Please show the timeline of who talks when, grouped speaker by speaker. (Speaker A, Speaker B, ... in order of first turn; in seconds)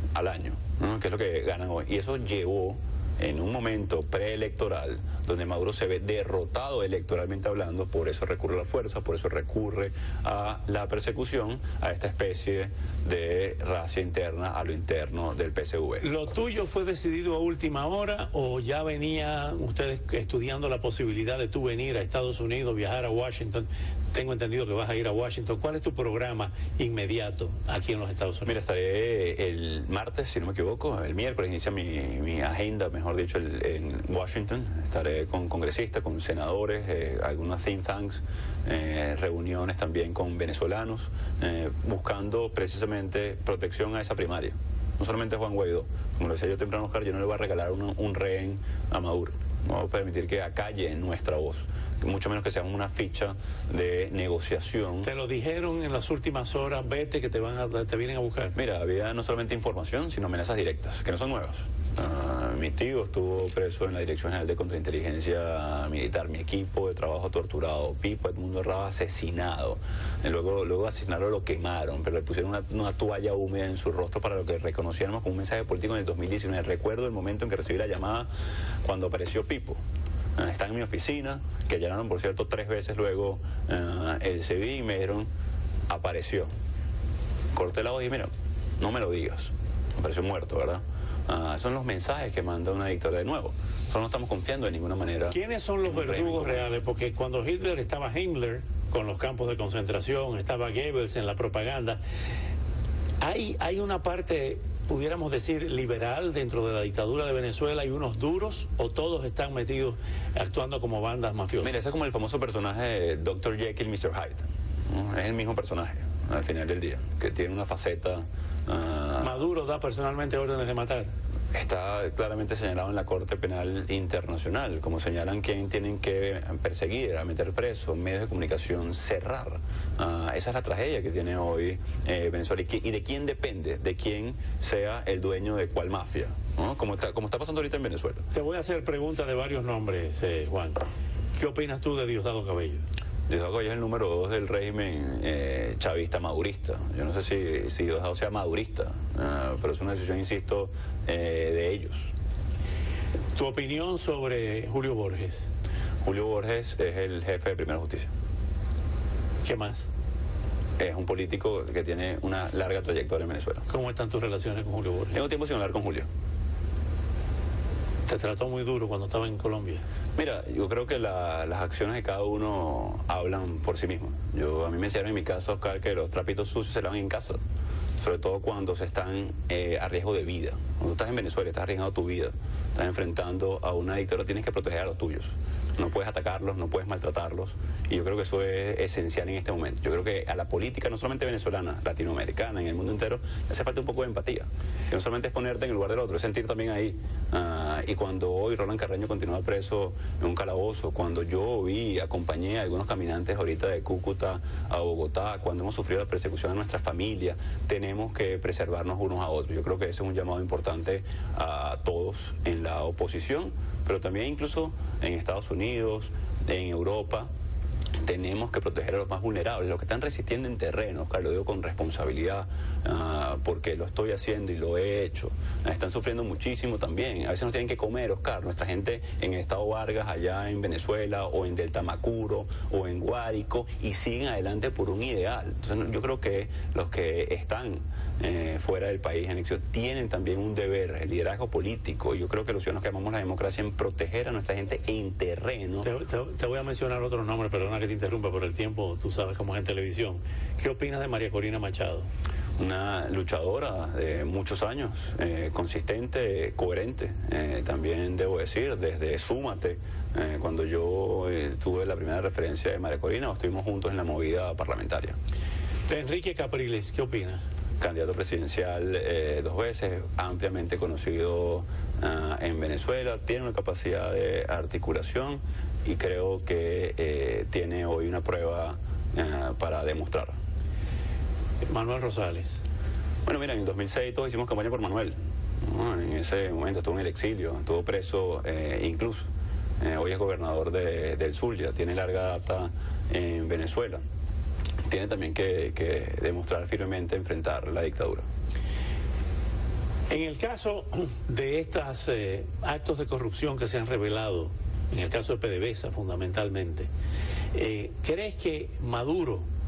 Speaker A: 0.1-16.0, 28.4-55.1, 58.5-78.3, 78.8-79.8, 80.4-85.3, 85.9-86.5, 87.5-96.7, 111.6-119.4, 121.5-138.2, 143.3-152.1, 156.0-158.1, 160.8-163.6, 165.1-166.1, 170.2-177.4, 178.0-217.3, 218.0-245.9, 252.6-265.1, 267.8-280.4, 283.2-289.3, 289.8-294.0, 294.9-298.2
Speaker B: 16.0-28.5, 55.0-58.5, 95.3-102.0, 103.2-111.8, 119.2-121.1, 138.3-140.8, 141.3-142.8, 153.3-155.5, 159.4-159.9, 163.7-165.2, 168.1-169.8, 245.8-252.1, 265.9-267.4, 281.7-282.6, 300.1-306.9, 307.5-309.5